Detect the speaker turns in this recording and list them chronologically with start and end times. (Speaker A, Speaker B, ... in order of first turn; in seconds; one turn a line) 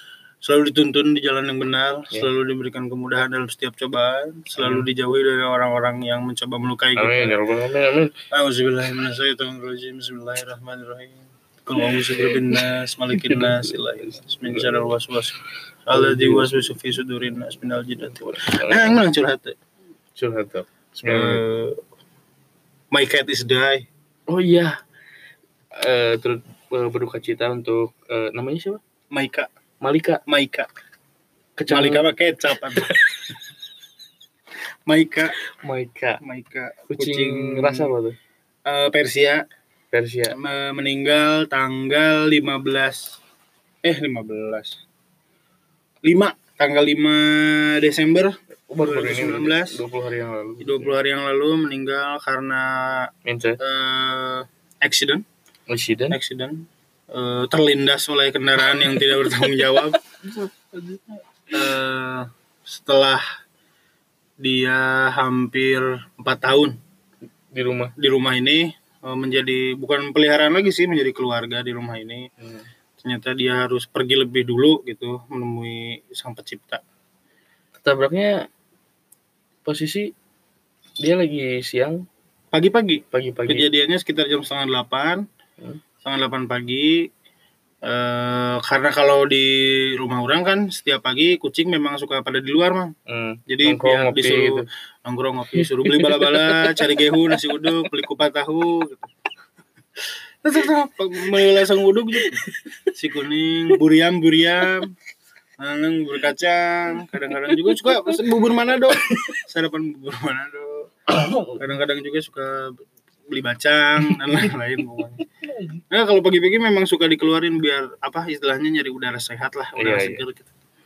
Speaker A: 0.4-7.4
Speaker B: 4.6-4.9
Speaker B: 7.0-8.2
Speaker A: 8.3-19.6
Speaker B: 11.9-12.6
Speaker B: 13.1-13.8
Speaker B: 14.5-14.9
Speaker B: 15.9-16.6
Speaker B: 18.5-19.0
Speaker B: 20.2-21.4
Speaker A: 21.1-21.8
Speaker A: 22.9-23.9
Speaker B: 24.3-24.8
Speaker B: 25.8-28.8
Speaker A: 29.1-29.5
Speaker B: 29.8-30.2
Speaker A: 30.3-30.7
Speaker B: 31.6-32.0
Speaker A: 31.7-32.9
Speaker B: 32.8-33.2
Speaker A: 34.9-35.4
Speaker B: 35.6-36.2
Speaker A: 36.2-37.9
Speaker B: 36.9-38.2
Speaker A: 38.7-39.4
Speaker B: 39.9-40.4
Speaker A: 40.3-43.2
Speaker A: 43.8-44.8
Speaker A: 46.0-49.8
Speaker B: 48.7-51.0
Speaker A: 50.6-53.1
Speaker B: 53.2-53.6
Speaker A: 53.6-55.2
Speaker B: 55.7-56.2
Speaker A: 56.1-63.2
Speaker A: 64.4-66.8
Speaker B: 67.5-67.9
Speaker A: 68.0-72.3
Speaker B: 72.4-72.7
Speaker A: 73.0-76.8
Speaker B: 77.8-78.5
Speaker B: 79.7-80.1
Speaker B: 81.0-82.0
Speaker A: 82.5-85.2
Speaker B: 83.1-83.7
Speaker A: 86.0-87.1
Speaker A: 87.8-92.9
Speaker B: 93.1-94.7
Speaker A: 93.5-99.1
Speaker B: 95.5-97.8
Speaker A: 100.4-104.9
Speaker B: 102.2-102.9
Speaker A: 105.6-110.9
Speaker B: 107.2-108.2
Speaker B: 109.0-109.3
Speaker B: 111.1-111.6
Speaker A: 111.6-115.2
Speaker B: 114.0-114.5
Speaker B: 115.4-115.8
Speaker A: 115.9-120.5
Speaker B: 119.8-120.2